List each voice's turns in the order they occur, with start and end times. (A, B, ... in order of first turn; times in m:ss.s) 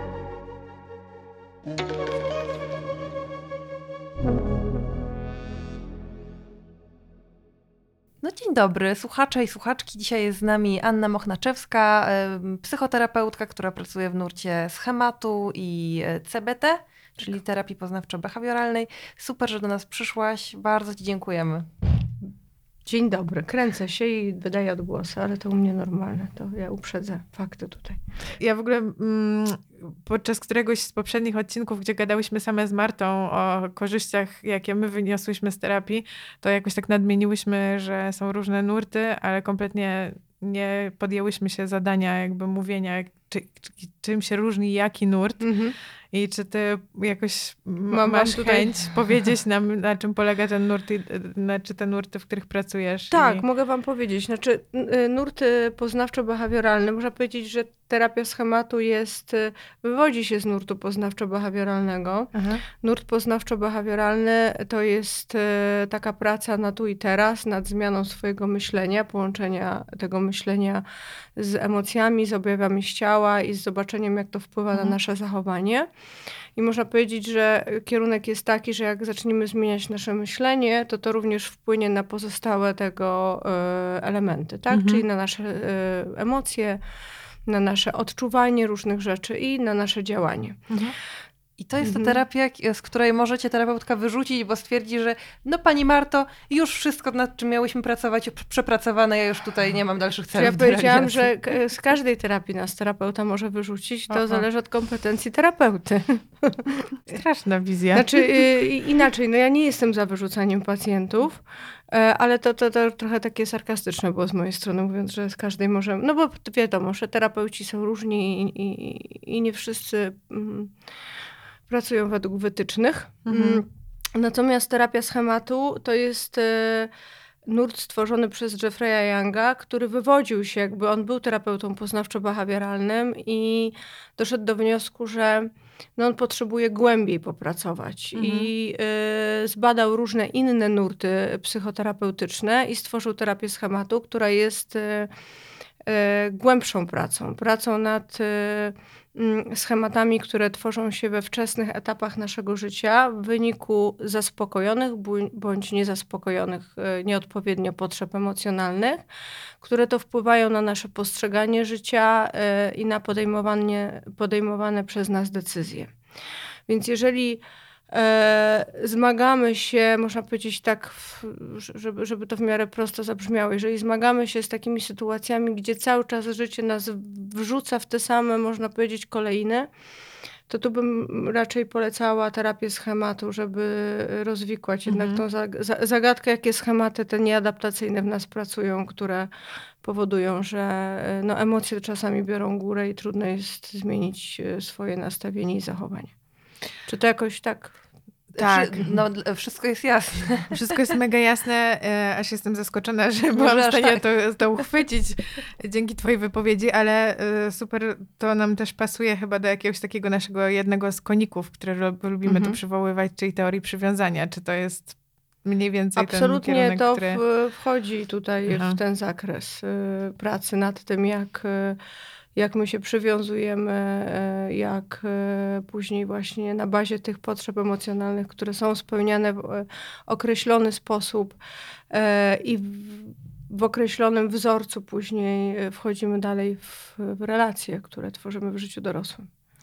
0:08.2-0:21.7 A
0:22.8-0:28.0 B
0:28.4-0:45.5 C
0:45.4-0:45.8 B
0:46.1-0:53.4 C
0:47.9-0:48.9 B
0:53.1-1:10.8 B
1:11.4-1:15.9 B
1:16.6-1:26.8 B
1:24.7-1:25.0 C
1:27.5-1:30.7 B
1:30.7-1:30.9 C
1:31.6-1:41.2 A
1:31.8-1:32.1 B
1:40.3-1:46.9 B
1:44.1-1:44.4 C
1:47.1-1:48.2 C
1:47.9-2:00.7 B
2:01.7-2:06.9 B
2:03.2-2:03.6 C
2:07.4-2:25.1 B
2:18.1-2:18.5 C
2:25.8-2:39.0 B
2:39.6-2:45.9 B
2:46.7-2:59.7 B
3:00.5-3:09.3 B
3:04.9-3:05.2 C
3:09.8-3:16.1 B
3:16.8-3:17.8 B
3:18.3-3:20.6 A
3:18.4-3:18.9 C
3:20.5-3:37.2 C
3:23.4-3:24.0 A
3:32.2-3:32.6 B
3:36.0-3:41.8 B
3:38.5-3:38.8 C
3:42.4-3:51.4 B
3:51.9-3:59.3 B